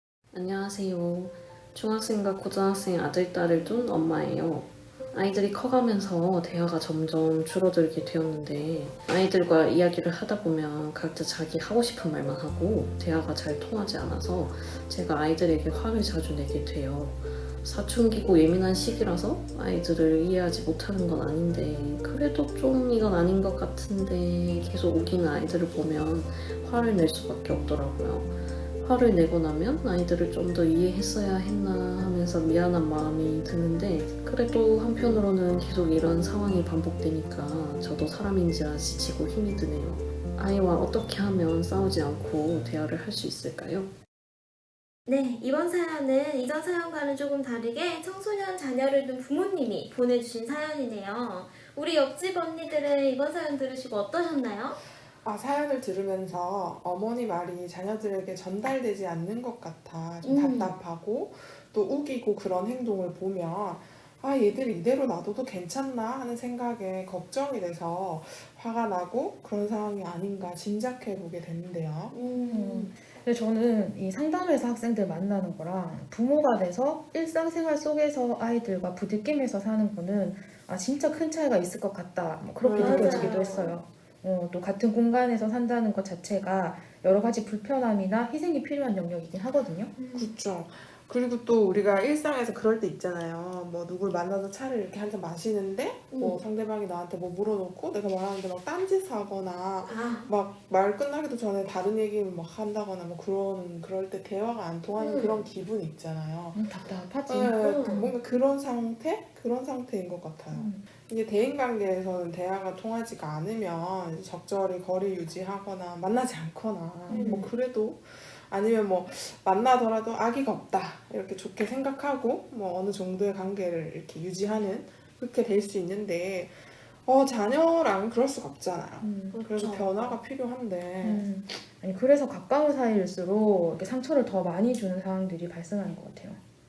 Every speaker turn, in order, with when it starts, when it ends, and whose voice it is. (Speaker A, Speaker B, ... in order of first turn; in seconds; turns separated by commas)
Speaker A: 0.3-43.9, Speaker B: 45.1-54.8, Speaker C: 55.2-72.1, Speaker B: 60.2-60.7, Speaker B: 72.1-72.9, Speaker D: 72.4-89.9, Speaker C: 82.6-83.4, Speaker B: 82.8-83.8, Speaker B: 90.0-90.3, Speaker C: 90.1-106.7, Speaker B: 96.1-96.4, Speaker B: 99.9-100.3, Speaker B: 105.0-105.5, Speaker D: 106.5-107.6, Speaker C: 107.3-131.3, Speaker B: 107.6-108.1, Speaker D: 110.5-110.8, Speaker D: 117.1-117.5, Speaker B: 117.1-117.5, Speaker D: 129.0-129.4, Speaker B: 129.3-129.9, Speaker D: 131.0-136.4